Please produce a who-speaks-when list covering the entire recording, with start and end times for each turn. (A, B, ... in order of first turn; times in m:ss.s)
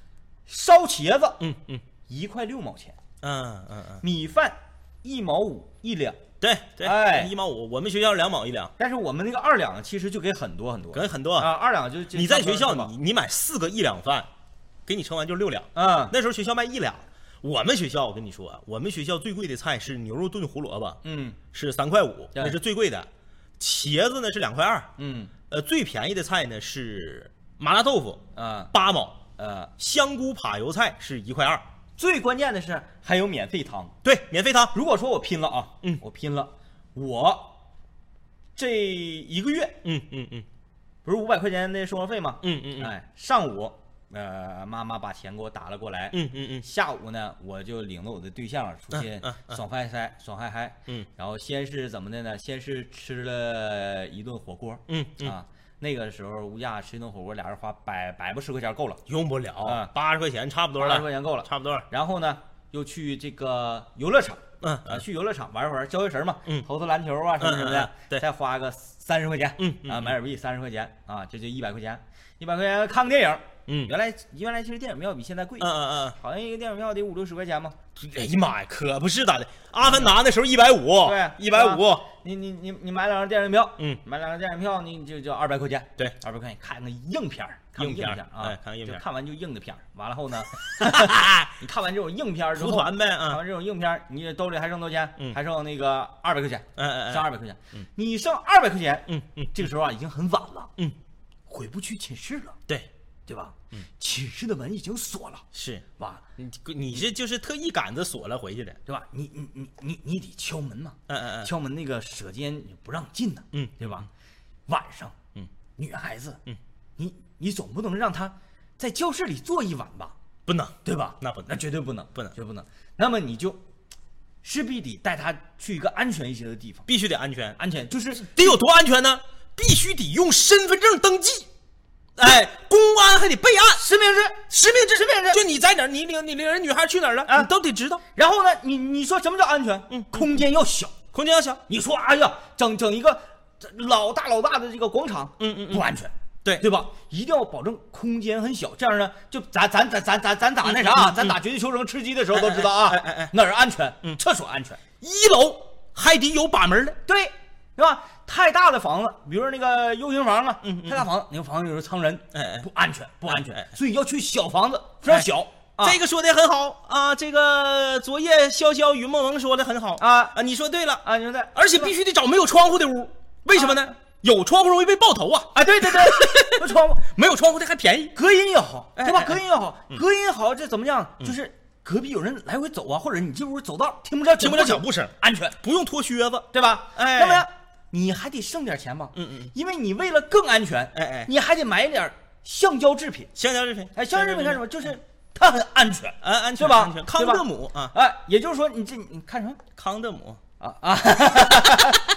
0:00.5-0:01.4 A
0:01.4-0:01.8 B
0:02.1-0:03.0 A
0:03.2-0:04.0 B
0:04.0-0:06.2 A
0:06.4-0:08.7 B
0:06.8-0:07.3 A
0:08.8-0:12.9 A
0:10.9-0:11.5 B
0:12.1-0:14.3 B
0:14.9-0:21.0 B
0:15.8-0:16.2 A
0:21.0-0:21.4 A
0:21.5-0:23.1 B
0:23.6-0:24.9 B
0:25.0-0:25.3 A
0:25.5-0:28.2 B
0:28.4-0:28.7 A
0:28.7-0:29.2 B
0:29.4-0:29.7 A
0:29.8-0:31.6 B
0:32.0-0:34.0 A
0:34.0-0:34.7 B
0:34.7-0:37.5 A
0:38.6-0:39.8 A
0:39.8-0:40.5 B
0:41.0-0:59.0 A
0:42.4-0:42.9 B
0:46.1-0:46.6 B
0:48.9-0:49.6 B
0:54.9-0:55.3 B
0:59.1-1:01.8 B
0:59.6-0:59.9 A
1:00.8-1:17.8 A
1:04.6-1:05.0 B
1:07.4-1:08.2 B
1:09.6-1:10.2 B
1:13.7-1:13.9 B
1:15.6-1:16.2 B
1:18.0-1:22.1 B
1:19.8-1:20.2 A
1:21.0-1:40.7 A
1:27.8-1:29.0 B
1:30.6-1:31.6 B
1:32.6-1:33.4 B
1:36.8-1:37.3 B
1:39.1-1:39.6 B
1:41.5-1:42.6 A
1:43.3-1:45.4 A
1:45.5-1:45.8 B
1:46.4-1:48.8 B
1:48.9-1:54.1 A
1:51.1-1:51.5 B
1:53.5-1:54.1 B
1:54.7-1:55.1 A
1:55.8-1:56.4 A
1:57.0-2:00.2 A
2:00.5-2:01.5 B
2:00.8-2:03.6 A
2:04.4-2:06.9 A
2:06.9-2:07.6 B
2:07.6-2:08.6 A
2:08.2-2:11.5 B
2:12.2-2:13.8 B
2:13.8-2:15.4 A
2:14.5-2:18.0 B
2:18.1-2:20.9 A
2:19.9-2:20.3 B
2:21.1-2:21.6 B
2:21.7-2:34.9 A
2:25.4-2:25.9 B
2:30.6-2:31.4 B
2:32.3-2:33.3 B
2:35.0-2:37.0 B
2:37.1-2:46.0 A
2:40.6-2:41.1 B
2:42.3-2:42.6 B
2:43.3-2:43.7 B
2:45.8-2:51.0 B
2:50.0-2:50.4 A
2:51.0-2:51.9 A
2:51.6-2:58.2 B
2:55.5-2:57.1 A
2:58.2-3:05.6 A
2:59.0-3:00.0 B
3:04.4-3:07.5 B
3:06.5-3:13.3 A
3:09.1-3:09.5 B
3:11.0-3:11.3 B
3:13.4-3:14.6 B
3:14.0-3:19.6 A
3:16.2-3:17.9 B
3:19.8-3:20.4 B
3:20.6-3:22.0 A